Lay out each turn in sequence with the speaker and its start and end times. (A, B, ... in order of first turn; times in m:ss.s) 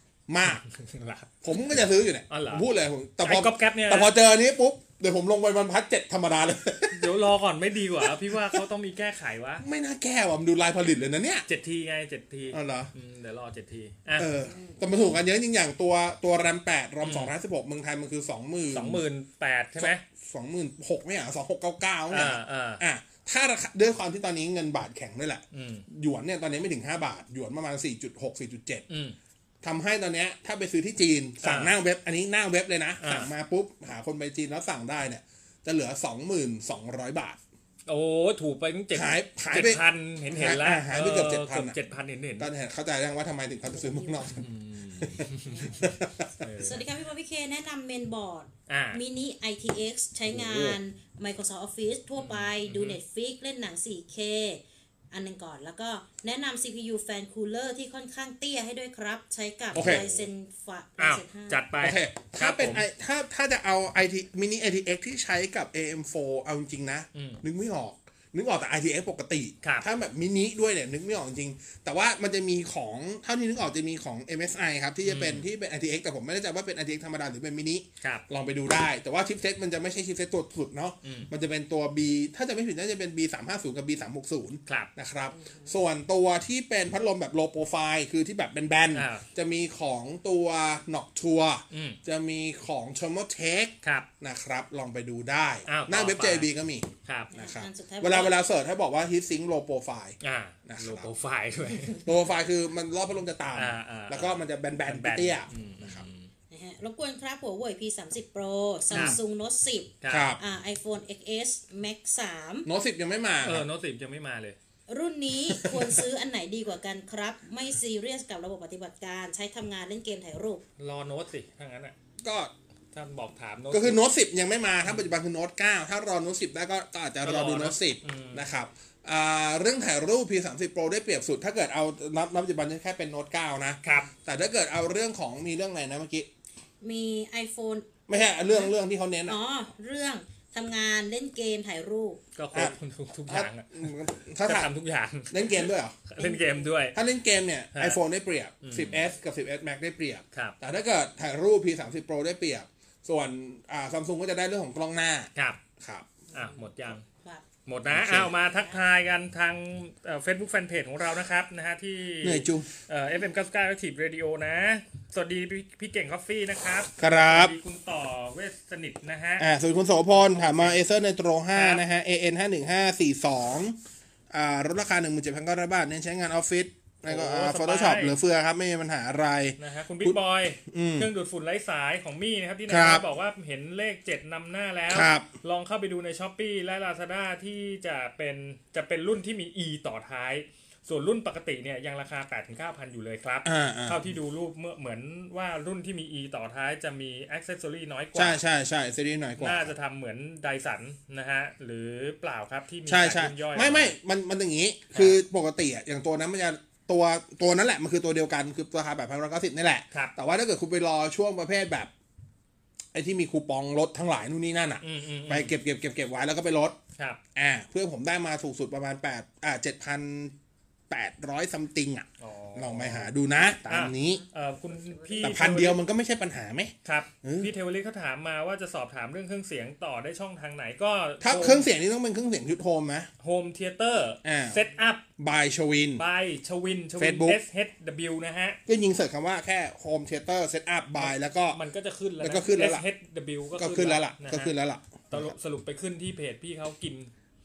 0:00.3-0:00.6 A
0:00.7-0:01.3 B
0:01.4-0:07.2 A
0:02.3-0:02.7 B
0:03.2-0:04.1 B
0:06.9-0:09.6 B
0:08.0-0:08.6 A
0:09.6-0:11.4 A
0:11.5-0:14.3 B
0:12.5-0:12.9 A
0:14.2-0:19.0 A
0:14.5-0:14.8 C
0:17.0-0:17.3 B
0:18.7-0:20.0 B
0:19.8-0:28.8 A
0:22.1-0:22.8 B
0:25.5-0:25.8 B
0:28.9-0:29.2 B
0:29.6-0:37.4 A
0:31.4-0:31.7 B
0:33.0-0:33.3 B
0:37.9-0:42.5 B
0:38.9-0:41.8 A
0:42.4-0:44.5 A
0:43.7-0:44.3 C
0:44.4-0:45.8 B
0:45.0-0:46.4 A
0:45.5-0:45.8 C
0:46.4-0:46.8 B
0:46.6-1:01.6 C
0:48.7-0:49.0 B
0:50.3-0:50.8 A
0:52.2-0:53.0 B
0:59.7-1:00.2 B
0:59.7-1:00.1 A
1:01.0-1:02.8 B
1:01.8-1:41.1 A
1:07.1-1:07.4 B
1:15.0-1:15.4 B
1:21.0-1:21.3 B
1:25.4-1:25.7 C
1:28.9-1:29.2 B
1:31.7-1:32.0 B
1:33.8-1:34.1 B
1:35.7-1:36.5 B
1:37.0-1:37.3 B
1:37.3-1:38.4 C
1:40.2-1:42.0 B
1:42.0-1:46.0 A
1:43.5-1:46.3 B
1:46.5-1:52.7 C
1:48.9-1:49.2 A
1:48.9-1:49.2 B
1:50.0-1:50.3 B
1:50.1-1:50.4 A
1:52.6-1:53.6 A
1:53.4-1:54.6 B
1:54.9-2:00.6 C
2:00.8-2:01.9 B
2:02.2-2:02.5 A
2:02.9-2:04.0 B
2:03.7-2:16.3 A
2:07.2-2:08.4 B
2:13.8-2:14.1 B
2:16.8-2:18.7 C
2:18.1-2:19.4 A
2:19.3-2:22.2 C
2:22.4-2:23.9 B
2:23.3-2:24.7 A
2:24.4-2:27.0 B
2:25.3-2:26.1 A
2:26.2-2:26.7 C
2:26.9-2:35.3 A
2:27.7-2:28.0 B
2:28.6-2:29.0 B
2:35.4-2:35.6 B
2:35.8-2:36.1 A
2:36.3-2:37.4 C
2:36.3-2:37.0 B
2:37.6-2:49.4 B
2:37.8-2:38.3 A
2:38.4-2:38.8 C
2:42.2-2:42.7 A
2:47.0-2:47.5 A
2:49.4-2:53.8 A
2:50.2-2:50.8 B
2:51.5-2:51.8 B
2:54.3-3:01.1 A
2:57.0-2:58.2 B
2:59.6-3:18.4 B
3:02.7-3:03.0 A
3:04.9-3:05.3 A
3:13.4-3:14.0 A
3:18.1-3:19.7 A
3:19.4-3:23.9 B
3:22.9-3:31.9 A
3:32.9-3:36.8 A
3:34.8-3:35.5 B
3:37.3-3:40.3 A
3:40.9-3:44.2 A
3:42.2-3:43.1 B
3:43.6-3:45.8 B
3:44.7-3:45.4 C
3:45.2-3:47.5 A
3:46.8-3:51.7 B
3:51.2-3:53.1 A
3:53.2-3:55.0 B
3:54.2-3:54.6 A
3:55.2-3:56.0 A
3:56.0-3:58.6 B
3:57.0-3:57.4 A
3:58.7-4:01.6 A
4:01.0-4:04.5 B
4:02.2-4:02.8 A
4:03.6-4:05.3 A
4:05.1-4:07.1 B